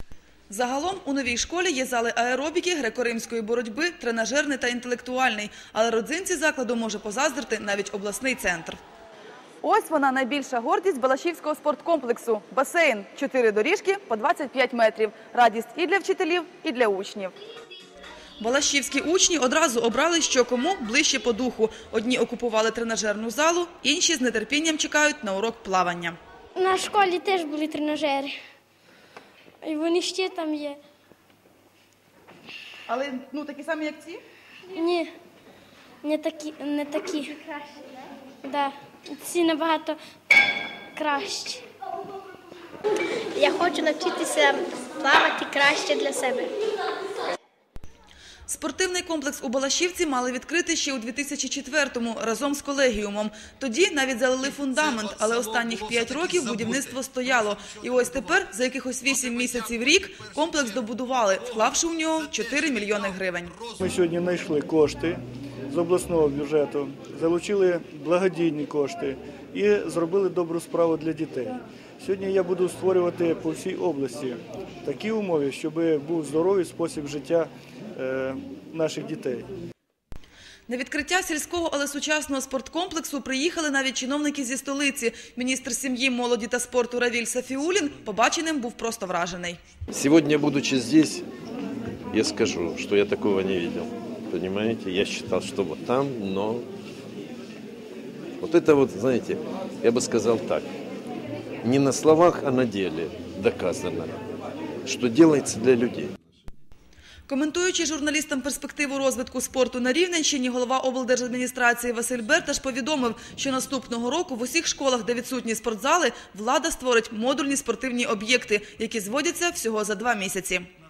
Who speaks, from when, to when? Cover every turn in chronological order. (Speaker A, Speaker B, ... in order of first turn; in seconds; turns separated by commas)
Speaker A: 0.5-8.8, Speaker A: 9.6-17.3, Speaker A: 18.4-26.2, Speaker B: 26.6-28.3, Speaker B: 29.6-30.8, Speaker A: 32.9-34.2, Speaker B: 34.7-35.1, Speaker B: 36.0-37.5, Speaker B: 38.4-40.0, Speaker B: 40.9-41.6, Speaker C: 43.3-46.5, Speaker A: 48.5-63.5, Speaker D: 63.8-79.5, Speaker A: 80.7-89.6, Speaker E: 89.9-91.2, Speaker E: 92.1-96.7, Speaker E: 98.4-100.7, Speaker E: 101.6-104.2, Speaker E: 104.8-106.1, Speaker A: 107.3-120.7